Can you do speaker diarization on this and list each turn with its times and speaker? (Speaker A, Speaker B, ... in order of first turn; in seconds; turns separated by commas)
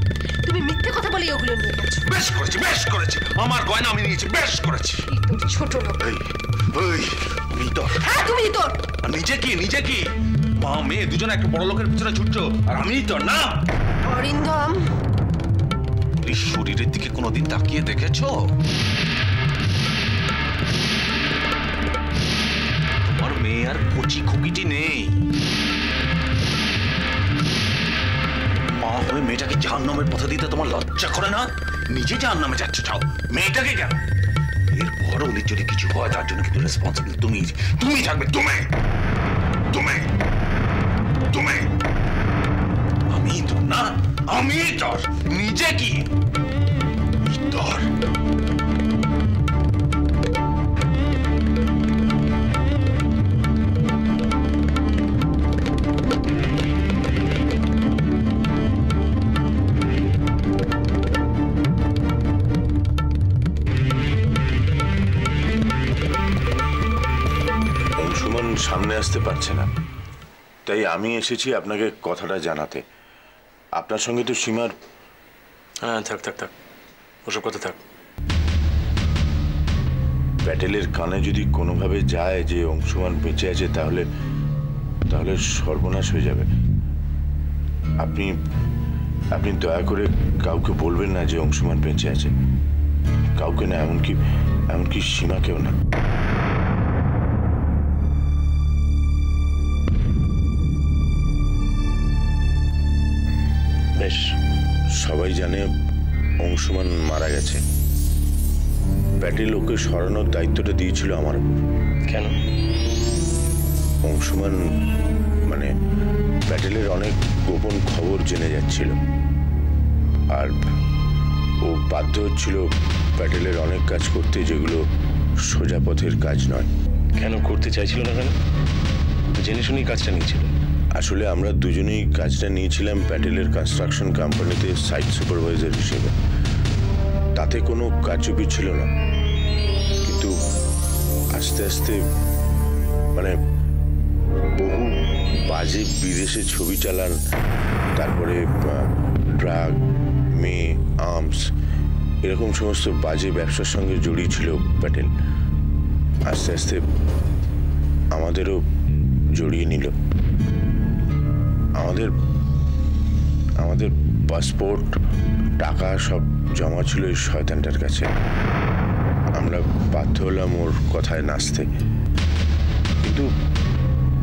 Speaker A: 0.4-2.0, Speaker B: 2.0-5.1, Speaker A: 5.1-6.1, Speaker B: 6.0-8.0, Speaker A: 7.9-8.8, Speaker B: 9.0-13.7, Speaker A: 14.0-14.9, Speaker B: 16.2-18.5, Speaker B: 23.1-25.2, Speaker B: 28.8-34.0, Speaker B: 34.7-38.7, Speaker B: 39.7-40.1, Speaker B: 41.3-41.7, Speaker B: 43.1-46.1, Speaker B: 47.2-47.9, Speaker C: 68.0-69.7, Speaker C: 70.7-72.8, Speaker C: 73.8-74.7, Speaker D: 75.8-76.5, Speaker D: 77.2-77.8, Speaker C: 80.4-84.1, Speaker C: 85.1-86.5, Speaker C: 88.0-88.4, Speaker C: 89.3-92.3, Speaker C: 93.3-95.8, Speaker D: 104.0-104.3, Speaker C: 104.9-105.7, Speaker C: 106.4-107.6, Speaker C: 109.2-111.4, Speaker D: 112.1-112.3, Speaker C: 114.0-114.7, Speaker C: 116.5-119.0, Speaker C: 120.3-120.7, Speaker C: 121.6-124.8, Speaker C: 125.4-126.7, Speaker D: 127.2-128.3, Speaker D: 129.3-130.5, Speaker C: 130.9-136.1, Speaker C: 137.3-138.9, Speaker C: 140.0-140.3, Speaker C: 141.3-142.0, Speaker C: 144.5-145.0, Speaker C: 145.5-147.2, Speaker C: 147.9-149.8, Speaker C: 150.3-151.5, Speaker C: 152.2-155.1, Speaker C: 156.3-156.8, Speaker C: 158.1-158.6, Speaker C: 159.3-159.9, Speaker C: 161.8-162.1, Speaker C: 163.6-165.0, Speaker C: 165.6-168.1, Speaker C: 169.3-171.7, Speaker C: 173.0-173.3